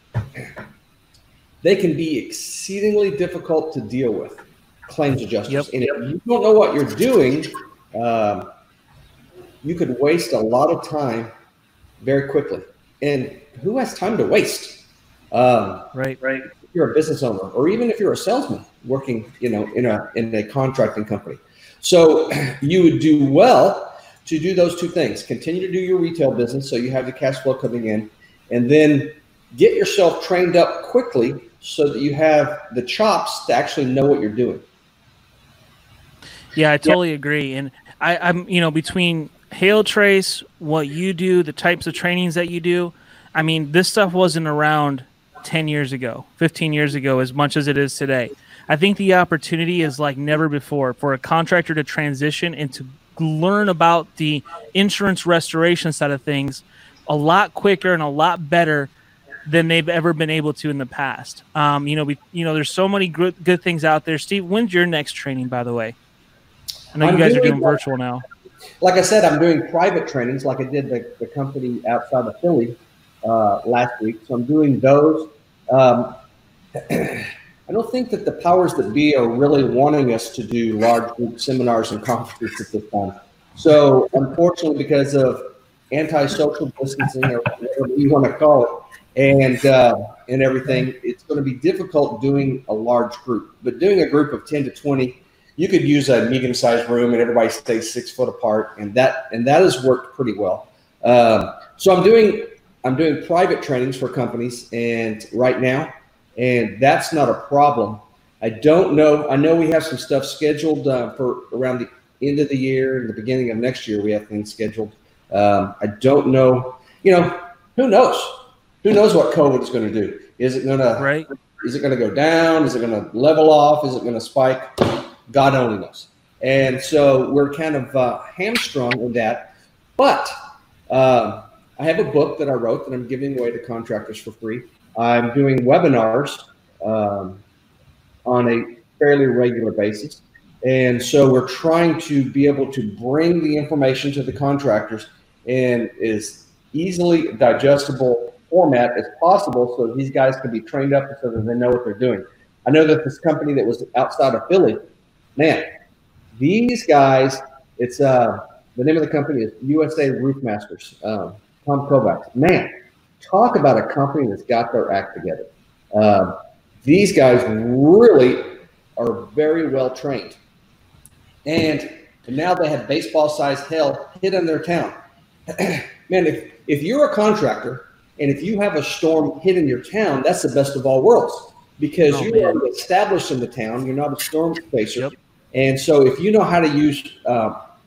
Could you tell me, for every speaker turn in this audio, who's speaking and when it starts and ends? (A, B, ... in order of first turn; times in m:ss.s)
0:01.6-0:08.5 A
0:09.6-0:11.3 A
0:12.0-0:15.9 A
0:15.9-0:16.4 B
0:16.7-0:34.6 A
0:36.5-0:58.9 B
0:59.4-1:06.0 B
1:06.9-1:08.2 B
1:07.0-1:07.8 A
1:08.8-1:16.2 A
1:16.9-2:10.3 A
2:01.0-2:01.3 B
2:10.9-2:17.4 A
2:18.2-2:34.8 A
2:35.4-2:35.7 A
2:36.4-2:50.4 A
2:51.4-2:54.9 A
2:55.5-3:07.6 A
3:02.1-3:02.6 B